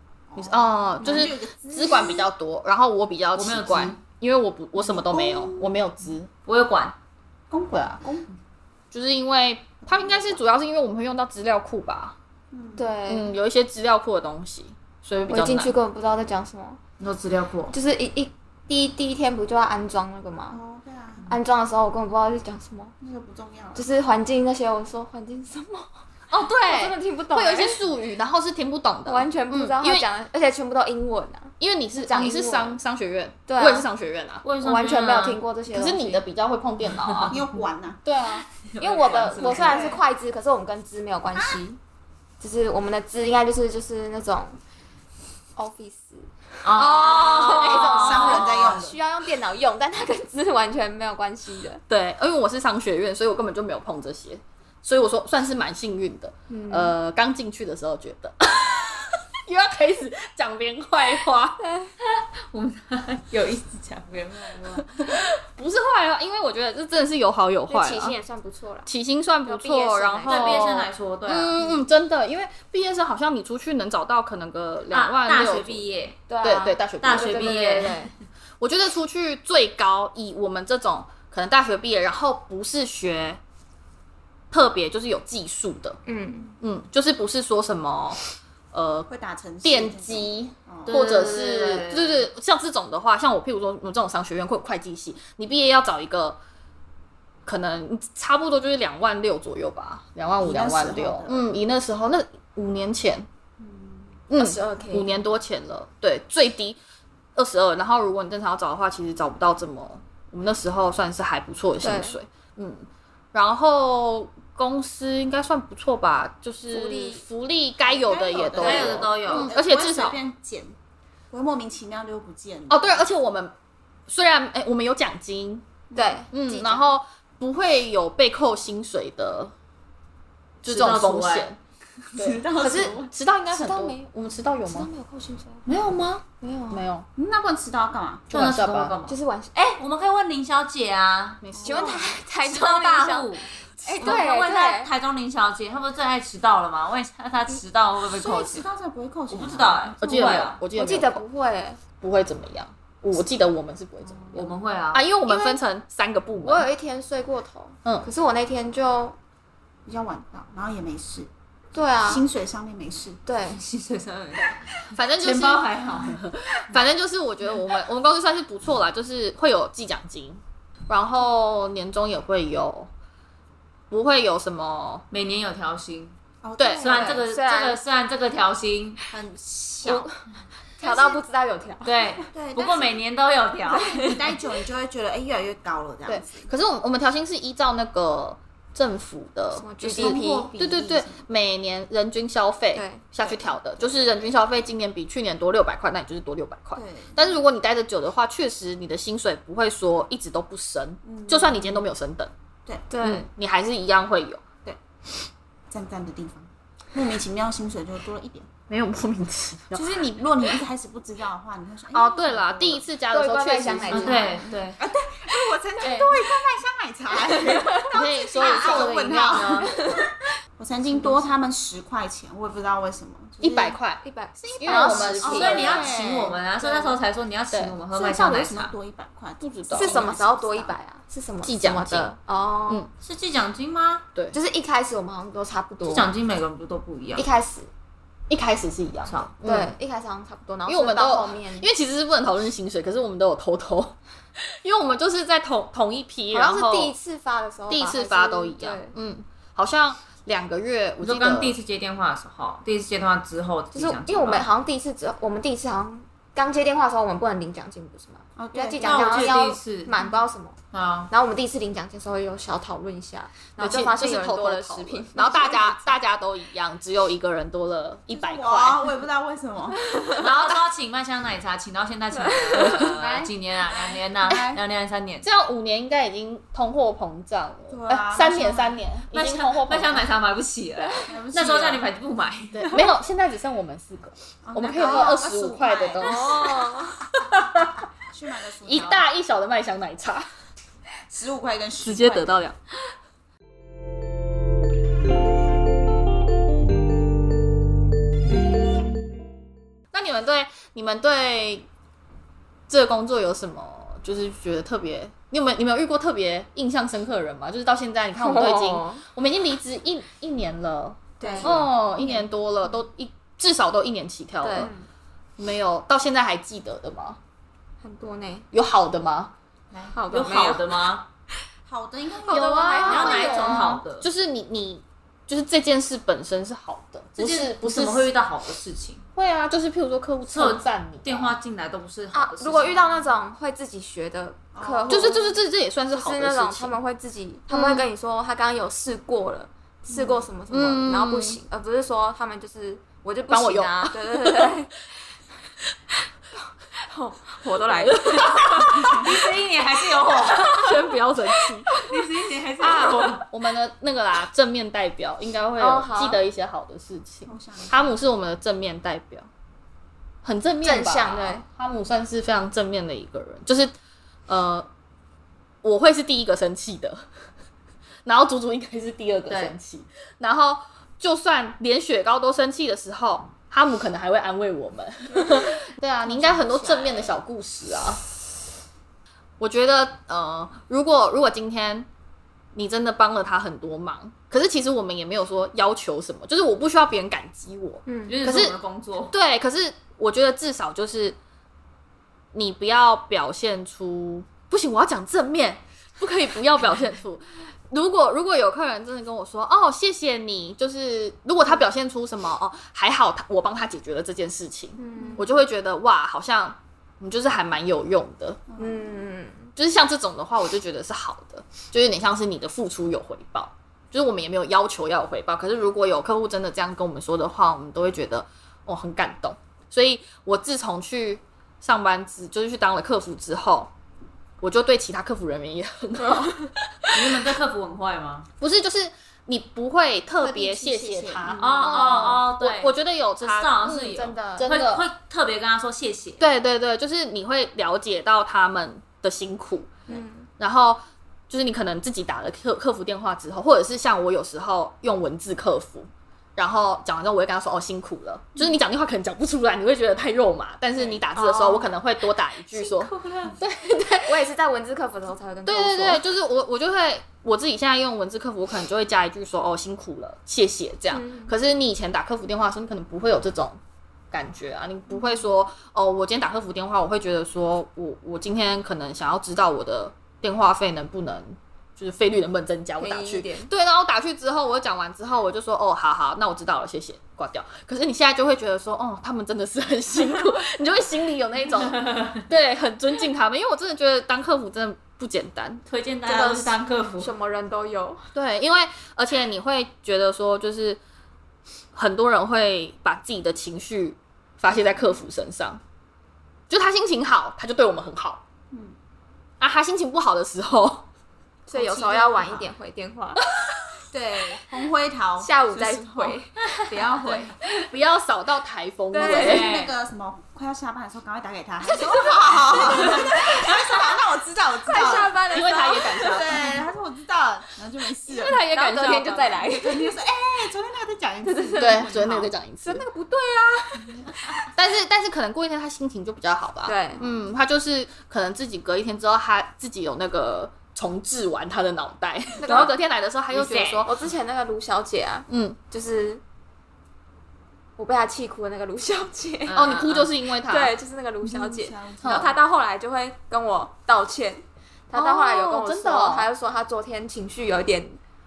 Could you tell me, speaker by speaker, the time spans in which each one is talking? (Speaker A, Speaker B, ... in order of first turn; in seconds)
Speaker A: 0.3-2.3, 4.8-5.7, 7.5-8.3, 9.9-10.4, 12.5-12.9, 20.5-21.3, 23.0-23.9, 37.3-38.0, 39.6-40.0, 47.4-49.0, 89.1-91.0, 100.4-101.5, 103.6-104.1, 117.8-120.8, 121.3-123.1, 125.9-126.2, 132.2-133.1, 137.2-138.3, 141.5-142.2, 148.1-150.0, 159.9-161.3, 162.1-163.2, 176.4-177.2, 179.1-180.1, 180.8-181.2, 182.2-183.0, 184.0-186.5, 189.9-191.2, 193.2-193.9, 196.8-197.2, 201.0-201.9, 205.7-208.5, 209.7-212.8, 214.1-220.0, 220.6-223.8, 224.4-226.4, 227.9-230.8, 258.4-260.2, 268.1-269.8, 272.9-274.6, 277.7-278.8, 281.1-281.9, 284.4-286.5, 288.0-289.1, 291.1-292.4, 311.2-311.7, 319.7-320.5, 321.7-323.4, 334.5-335.2, 339.9-340.2, 348.6-349.2, 357.3-357.9, 376.1-377.2, 408.5-408.9, 430.2-432.1, 501.5-502.5, 503.9-507.4, 509.0-515.2, 516.0-518.4, 519.4-522.3, 541.2-542.3
Speaker B: 0.4-6.3, 8.9-12.2, 13.1-15.7, 26.3-30.1, 31.6-34.5, 35.7-37.4, 38.0-38.5, 46.8-48.8, 51.9-61.6, 65.0-68.2, 68.9-75.8, 76.4-77.6, 78.6-83.4, 84.5-86.0, 86.6-88.2, 88.7-89.1, 89.6-96.4, 97.5-103.3, 104.3-106.8, 107.3-120.2, 122.7-123.5, 124.1-125.7, 126.3-129.5, 130.6-131.6, 132.2-134.9, 136.7-137.1, 138.3-139.0, 141.4-142.0, 150.0-151.2, 152.0-156.7, 164.9-172.9, 173.9-175.1, 176.6-176.8, 186.1-202.3, 203.0-204.4, 208.7-210.0, 211.9-214.3, 215.8-216.1, 217.9-219.7, 223.4-224.0, 224.6-225.9, 227.5-227.8, 229.4-230.1, 231.4-232.1, 238.3-239.7, 240.7-246.9, 247.7-251.6, 263.6-268.9, 275.2-280.1, 282.5-287.8, 288.6-290.3, 291.8-292.6, 299.9-301.7, 302.7-314.7, 315.4-317.2, 318.5-319.3, 322.3-328.1, 329.2-331.4, 334.9-336.8, 337.5-337.9, 340.5-341.4, 343.3-344.5, 350.4-351.7, 352.6-359.3, 360.2-363.7, 364.3-364.7, 365.6-367.1, 368.1-378.0, 379.4-381.9, 382.5-388.6, 389.1-391.2, 392.3-408.4, 409.6-423.7, 424.4-426.9, 428.4-434.9, 436.2-439.7, 440.4-454.2, 455.5-463.6, 464.1-485.6, 488.1-490.8, 491.7-495.6, 496.5-498.2, 499.4-500.9, 507.6-509.5, 515.3-516.5, 518.1-519.4, 521.6-522.9, 524.5-533.9, 535.3-535.6, 539.5-540.7, 542.0-542.4, 544.9-546.3
Speaker C: 3.4-4.0, 6.5-7.0, 17.0-17.7, 34.4-35.4, 36.9-37.4, 38.5-40.0, 46.6-48.6, 62.0-64.9, 70.3-71.7, 74.9-76.2, 77.0-78.1, 90.9-92.2, 118.6-119.5, 130.7-131.5, 135.7-136.2, 138.3-141.4, 142.4-148.7, 149.3-150.6, 154.3-155.1, 163.5-166.2, 175.1-176.1, 176.8-179.0, 181.8-184.3, 213.9-214.8, 225.2-228.7, 233.0-234.1, 235.8-237.3, 239.1-239.3, 251.0-254.5, 258.8-259.9, 260.7-261.1, 270.1-275.3, 279.1-282.8, 319.8-321.1, 322.9-324.1, 327.2-329.1, 330.3-333.0, 347.9-350.7, 351.7-353.2, 369.3-369.6, 388.1-389.1, 426.9-428.3, 431.4-436.2, 452.5-453.4, 485.7-487.1, 509.0-509.7, 533.3-533.8, 539.5-540.1
Speaker D: 12.8-13.3, 15.3-16.8, 17.7-20.6, 21.3-22.9, 23.8-25.9, 26.6-27.8, 29.1-32.8, 33.5-33.9, 34.6-36.2, 38.8-41.8, 42.4-44.6, 45.6-51.8, 56.5-57.0, 67.7-68.9, 69.5-70.6, 76.3-78.1, 86.1-86.5, 104.3-105.1, 111.8-112.2, 116.7-117.2, 126.0-126.8, 133.5-134.0, 134.7-135.7, 136.4-136.9, 139.1-139.6, 141.6-143.3, 143.8-144.9, 150.7-151.8, 155.3-155.6, 156.4-159.2, 161.7-162.2, 163.3-163.6, 176.8-177.8, 179.8-180.2, 180.8-182.0, 183.7-184.1, 189.5-190.5, 192.7-193.0, 202.9-203.3, 213.1-214.5, 217.3-218.8, 219.6-220.1, 224.0-227.0, 229.7-232.9, 234.3-236.1, 237.2-237.7, 239.4-241.7, 246.3-248.9, 253.7-260.6, 261.1-266.0, 272.2-272.9, 284.8-285.2, 286.0-287.0, 308.2-309.0, 311.2-312.3, 314.4-314.9, 317.8-318.5, 320.0-320.8, 322.2-323.8, 332.1-335.4, 335.9-344.8, 346.7-349.0, 350.3-350.7, 355.6-356.2, 360.6-361.4, 387.9-388.2, 404.8-405.3, 408.6-409.5, 426.0-426.5, 431.3-432.1, 433.7-434.5, 439.9-440.3, 450.8-451.7, 454.1-456.1, 460.9-461.3, 472.8-473.5, 486.1-488.1, 501.5-503.2, 505.2-506.5, 508.9-509.5, 511.6-514.0, 514.7-516.5, 518.3-519.9, 521.2-521.9, 522.6-524.4, 526.7-527.0, 532.4-532.7, 533.8-536.2, 537.8-539.7, 540.5-548.0